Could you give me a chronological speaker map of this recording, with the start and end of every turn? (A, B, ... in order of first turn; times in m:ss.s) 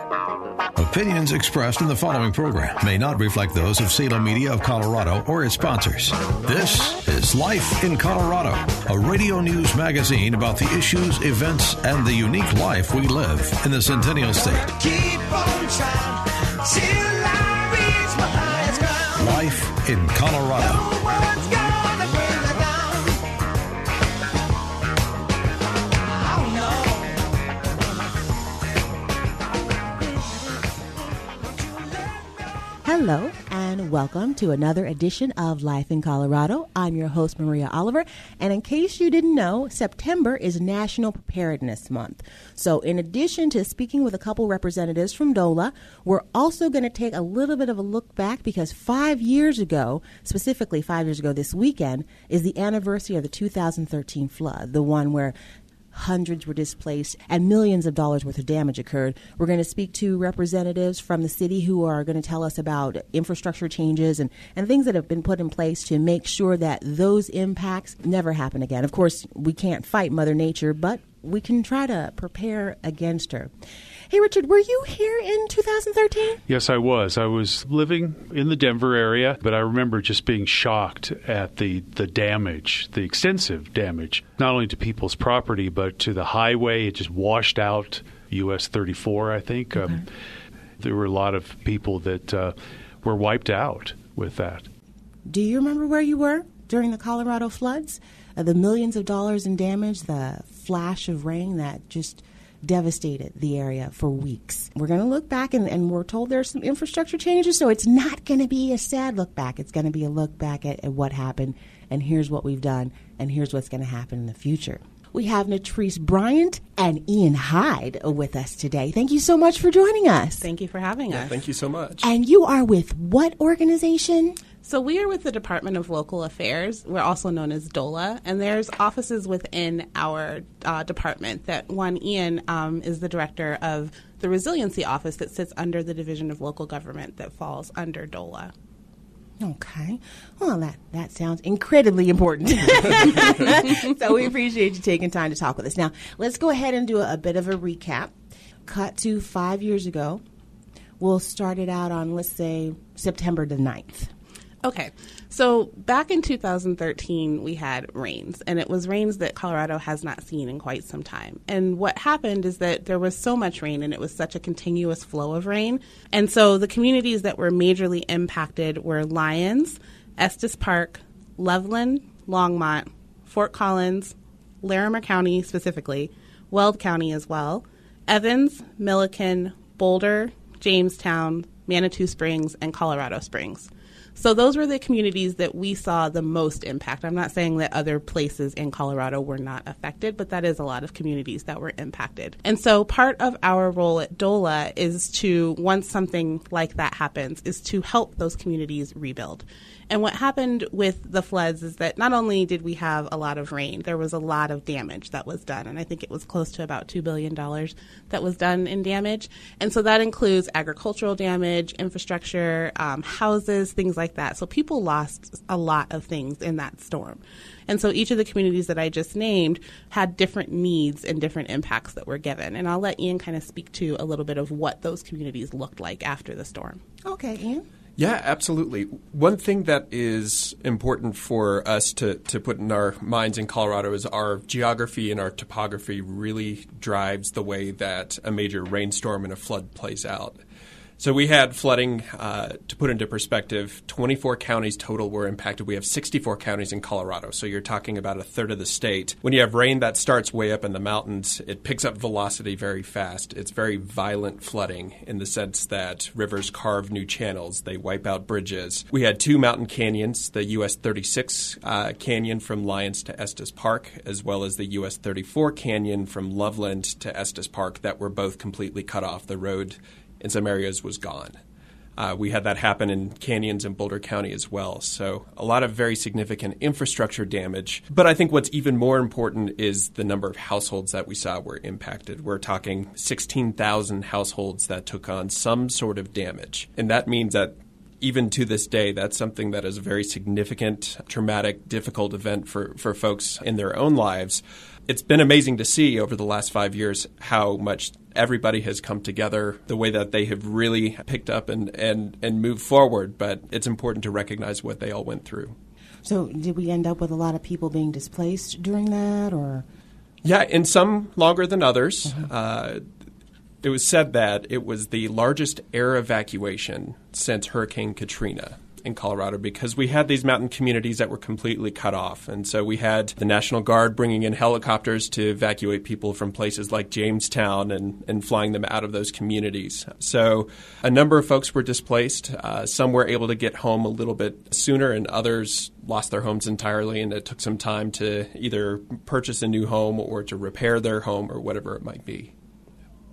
0:00.8-0:14.7 A
0:14.5-0:19.4 B
0:19.2-0:20.9 A
0:20.6-0:23.3 B
0:26.0-0:27.3 B
0:31.6-0:55.3 B
0:55.9-1:13.5 B
1:14.1-1:16.4 B
1:16.5-1:30.1 C
1:30.8-1:34.7 C
1:35.3-2:00.5 B
2:00.4-2:01.4 D
2:01.1-2:02.1 E
2:02.0-2:04.4 B
2:04.6-2:18.5 D
2:19.4-2:28.1 B
2:28.6-2:30.2 B
2:31.0-2:34.1 B
2:34.6-3:46.8 D
3:47.0-3:47.6 B
3:48.0-4:00.4 E
4:01.0-4:31.4 E
4:32.0-5:05.6 E
5:06.0-5:09.6 B
5:10.2-5:12.8 E
5:13.6-5:42.3 E